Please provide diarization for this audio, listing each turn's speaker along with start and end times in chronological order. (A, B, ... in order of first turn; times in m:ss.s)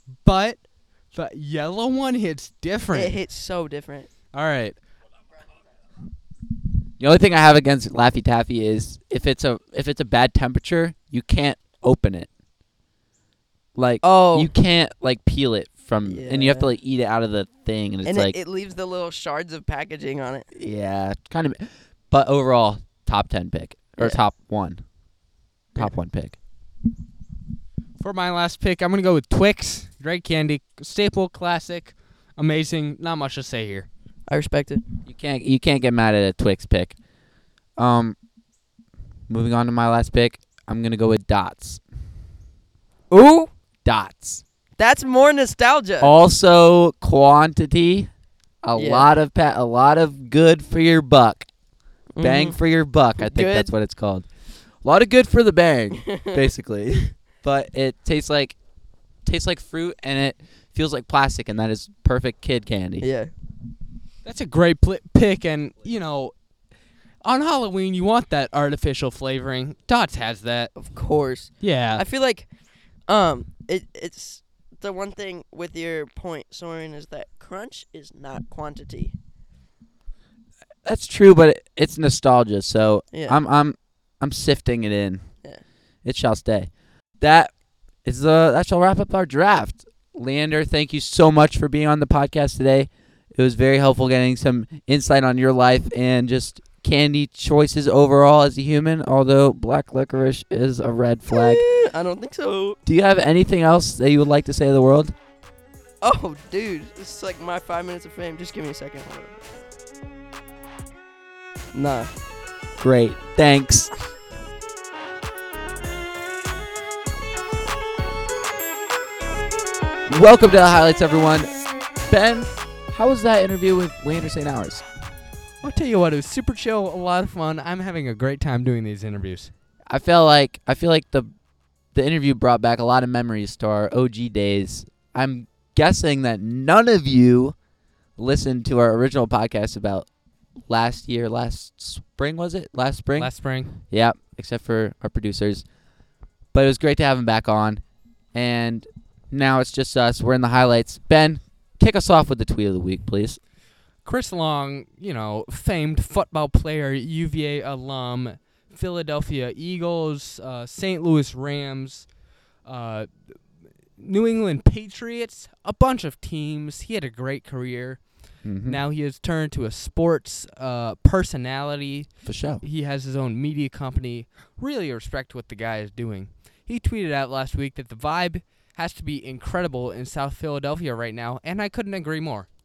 0:00.2-0:03.2 A
0:02.9-0:04.1 B
0:04.3-0:04.8 A
0:07.0-0:12.3 C
0:13.8-0:18.4 C
0:14.0-0:14.5 B
0:16.0-0:16.7 B
0:18.1-0:20.5 B
0:20.5-0:24.8 C
0:25.8-0:26.4 C
0:28.0-0:33.9 A
0:34.3-0:34.8 B
0:35.1-0:37.0 C
0:37.8-0:38.2 C
0:39.3-0:41.8 C
0:43.1-0:43.5 B
0:43.8-0:44.4 C
0:44.8-0:46.1 B
0:46.0-0:48.1 C
0:48.6-0:51.5 C
0:48.8-0:49.1 B
0:52.2-0:52.6 B
0:52.2-0:54.3 C
0:53.2-0:53.7 B
0:54.8-0:58.6 C
0:56.0-0:56.4 B
0:59.2-1:03.1 C
1:03.0-1:03.3 B
1:04.2-1:06.3 A
1:07.2-1:10.7 A
1:10.8-1:12.5 B
1:11.6-1:12.0 A
1:13.1-1:19.1 B
1:20.8-1:25.2 C
1:23.1-1:23.4 B
1:26.0-1:27.5 C
1:28.0-1:41.6 C
1:41.3-1:42.8 B
1:42.9-1:45.1 C
1:46.0-1:49.4 B
1:51.7-1:52.1 B
1:52.8-1:53.9 C
2:00.1-2:04.8 C
2:05.6-2:09.5 A
2:09.9-2:11.3 C
2:11.9-2:17.6 C
2:18.2-2:20.1 C
2:20.7-2:23.3 C
2:23.2-2:23.8 A
2:23.9-2:25.6 C
2:26.5-2:27.8 C
2:28.3-2:33.4 C
2:34.0-2:42.1 A
2:42.6-2:43.4 A
2:44.0-2:48.0 A
2:48.4-2:48.8 C
2:48.6-3:02.5 A
2:52.2-2:52.6 C